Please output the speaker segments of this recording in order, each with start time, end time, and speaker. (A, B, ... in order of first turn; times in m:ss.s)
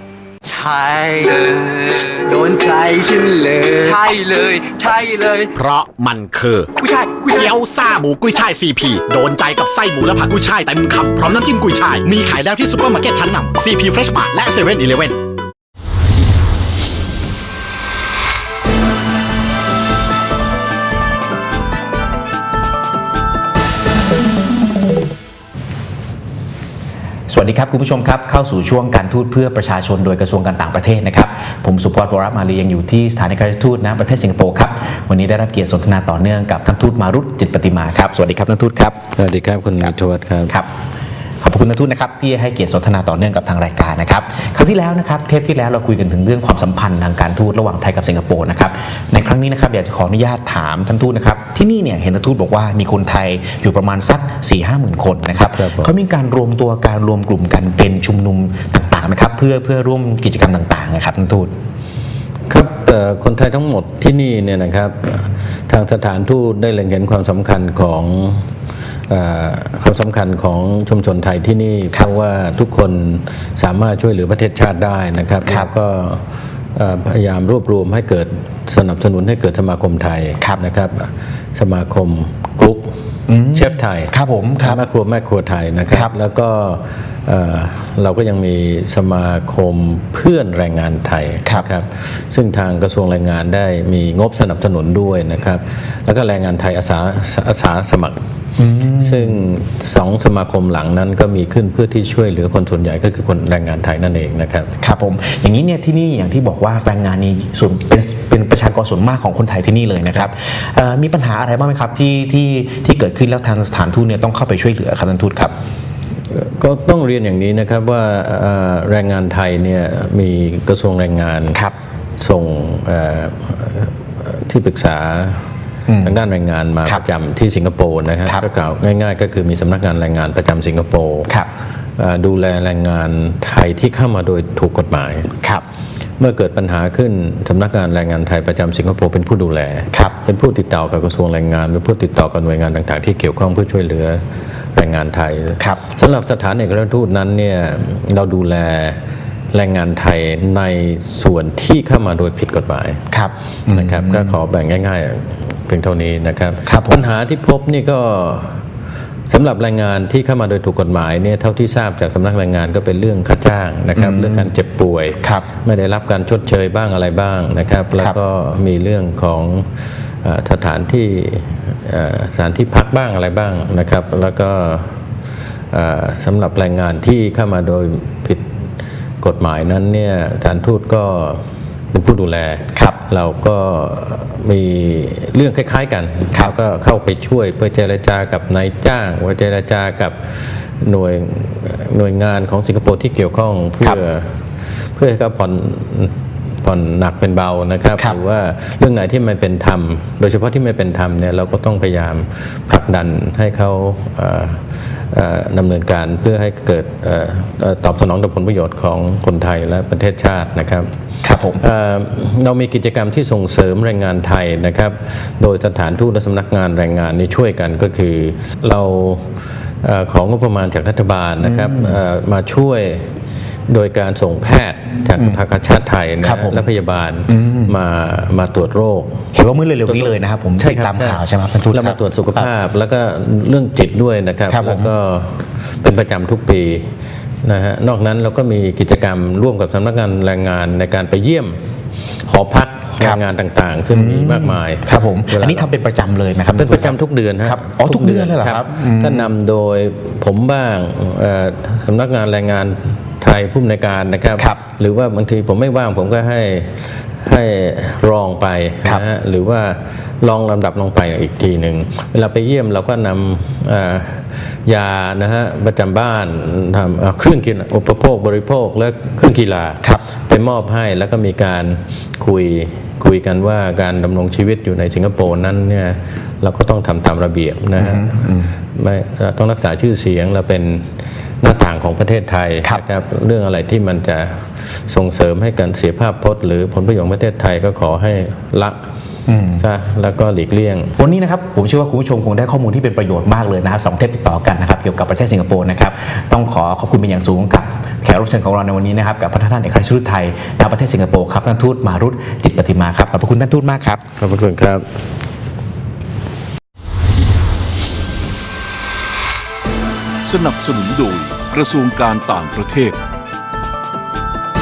0:00.4-0:05.5 A
0:05.6-0:06.7 B
0:06.8-0:07.5 A
0:07.4-0:15.1 B
0:27.3-0:39.0 C
0:39.1-0:40.5 D
0:41.4-1:01.5 C
0:55.4-0:55.9 D
1:02.5-1:08.5 D
1:09.1-1:16.2 D
1:16.7-1:38.2 D
1:23.3-1:24.8 C
1:25.9-1:26.1 C
1:38.6-1:39.4 C
1:38.9-1:44.7 D
1:44.8-1:55.5 C
1:56.3-2:01.6 D
2:02.2-2:05.5 D
2:05.9-2:06.2 C
2:06.0-2:11.4 D
2:12.0-2:15.3 D
2:16.2-2:24.2 D
2:24.7-2:29.0 D
2:29.5-2:33.0 D
2:33.1-2:34.4 C
2:33.6-2:38.6 D
2:36.6-2:37.0 C
2:39.3-2:55.0 D
2:44.0-2:44.5 C
2:45.2-2:45.4 C
2:55.7-2:58.5 D
2:59.2-3:14.4 D
3:14.9-3:30.9 D
3:31.2-3:31.6 C
3:31.6-3:39.3 D
3:39.8-3:49.3 D
3:41.4-3:42.0 C
3:45.2-3:45.4 C
3:46.2-3:46.7 C
3:47.3-3:47.7 C
3:49.3-3:52.5 C
3:49.8-3:56.9 D
3:54.5-3:54.9 C
3:57.4-4:05.8 D
4:03.9-4:09.3 C
4:06.5-4:48.8 D
4:37.8-4:38.5 C
4:49.3-4:49.6 C
4:49.5-4:50.9 D
4:51.0-5:04.0 C
5:04.2-5:04.9 D
5:10.4-5:12.7 E